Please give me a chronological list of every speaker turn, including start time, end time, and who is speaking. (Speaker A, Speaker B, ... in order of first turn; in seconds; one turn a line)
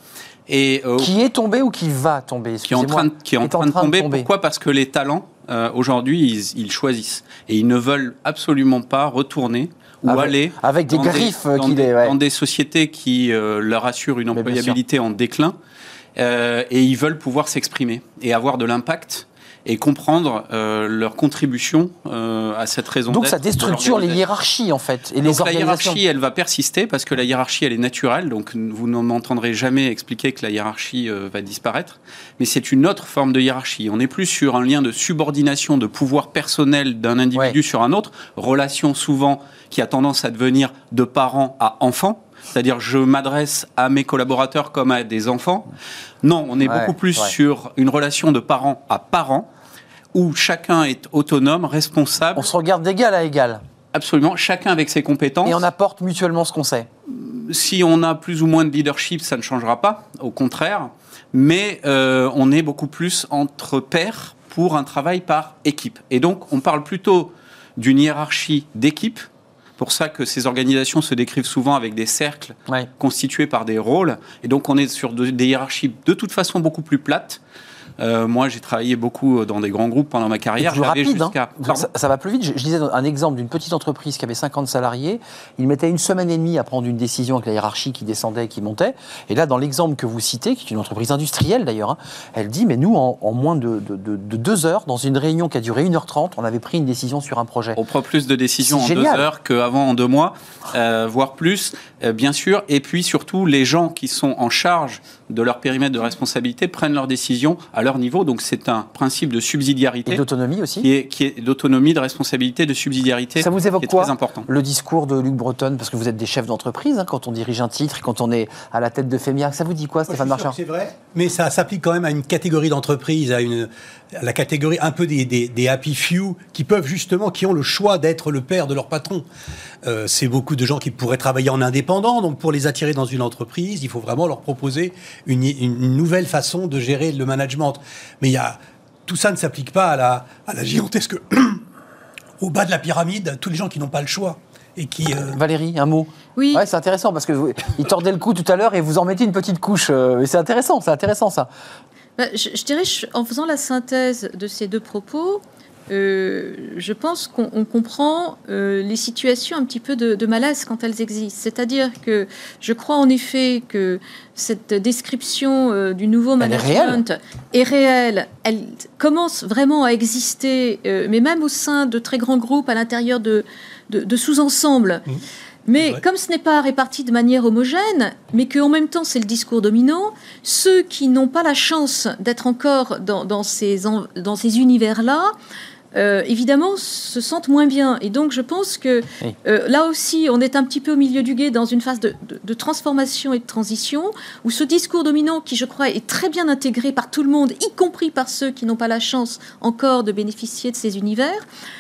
Speaker A: 0.5-1.1
Speaker B: 1.0-4.3
Speaker A: 2.7-15.6
Speaker B: 10.1-12.2
Speaker B: 14.3-14.8
Speaker A: 16.2-24.2
Speaker B: 23.1-26.0
Speaker A: 25.2-45.7
Speaker A: 46.2-49.5
Speaker B: 46.6-47.3
Speaker A: 50.1-52.5
Speaker B: 52.4-53.6
Speaker A: 53.9-55.6
Speaker B: 55.4-56.9
Speaker A: 57.1-69.2
Speaker A: 69.8-77.4
Speaker A: 78.0-81.9
Speaker B: 80.6-97.8
Speaker A: 97.8-110.2
Speaker B: 98.6-99.3
Speaker B: 110.1-110.9
Speaker A: 110.8-114.5
Speaker B: 113.4-120.6
Speaker C: 120.1-129.3
Speaker C: 129.8-141.6
Speaker C: 142.4-145.4
Speaker B: 145.3-151.5
Speaker D: 146.4-146.6
Speaker D: 152.2-175.0
Speaker B: 166.4-167.0
Speaker D: 175.7-185.3
Speaker D: 185.9-201.4